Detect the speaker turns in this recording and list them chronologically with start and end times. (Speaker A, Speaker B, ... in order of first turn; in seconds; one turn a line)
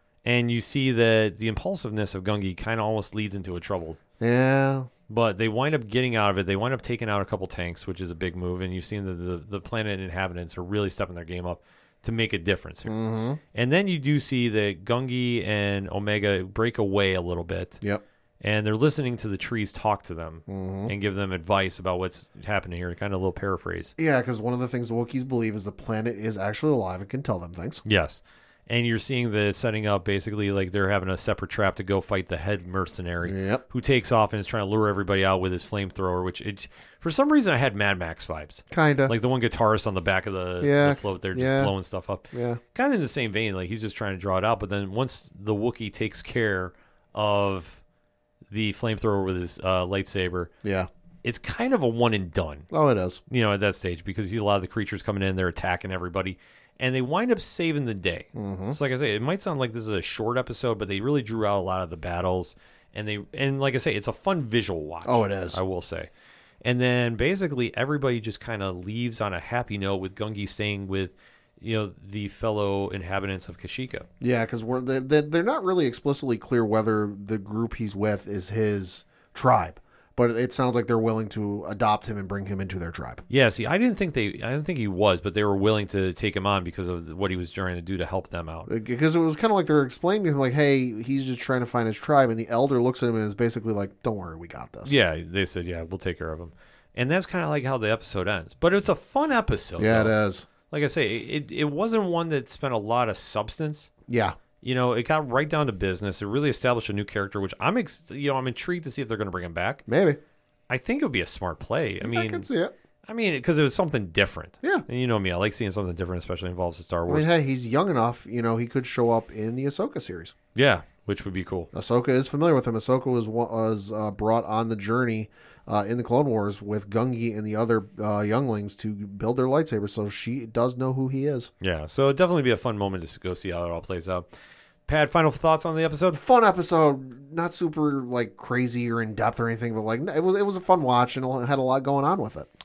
Speaker A: 0.2-4.0
Speaker B: 4.2-4.9
Speaker A: 5.1-12.9
Speaker B: 12.9-13.4
Speaker A: 13.5-17.8
Speaker A: 18.4-23.9
Speaker B: 20.5-20.9
Speaker B: 24.0-27.8
Speaker A: 27.9-47.8
Speaker B: 33.2-33.6
Speaker B: 38.7-39.1
Speaker B: 40.6-41.7
Speaker B: 42.3-42.6
Speaker A: 48.5-50.5
Speaker B: 50.6-50.9
Speaker A: 51.2-52.7
Speaker B: 52.7-53.2
Speaker A: 53.3-66.1
Speaker B: 58.4-58.8
Speaker B: 65.0-65.6
Speaker A: 66.6-74.1
Speaker B: 74.2-83.2
Speaker A: 83.3-88.7
Speaker B: 88.7-94.9
Speaker A: 94.8-100.2
Speaker B: 99.8-100.5
Speaker A: 100.7-103.9
Speaker B: 104.1-104.4
Speaker A: 104.6-109.8
Speaker B: 109.9-110.2
Speaker A: 110.7-112.5
Speaker B: 112.0-112.8
Speaker A: 113.1-117.3
Speaker B: 117.1-120.3
Speaker A: 120.5-121.7
Speaker B: 121.7-131.5
Speaker A: 131.6-134.3
Speaker A: 134.9-136.2
Speaker B: 136.1-142.5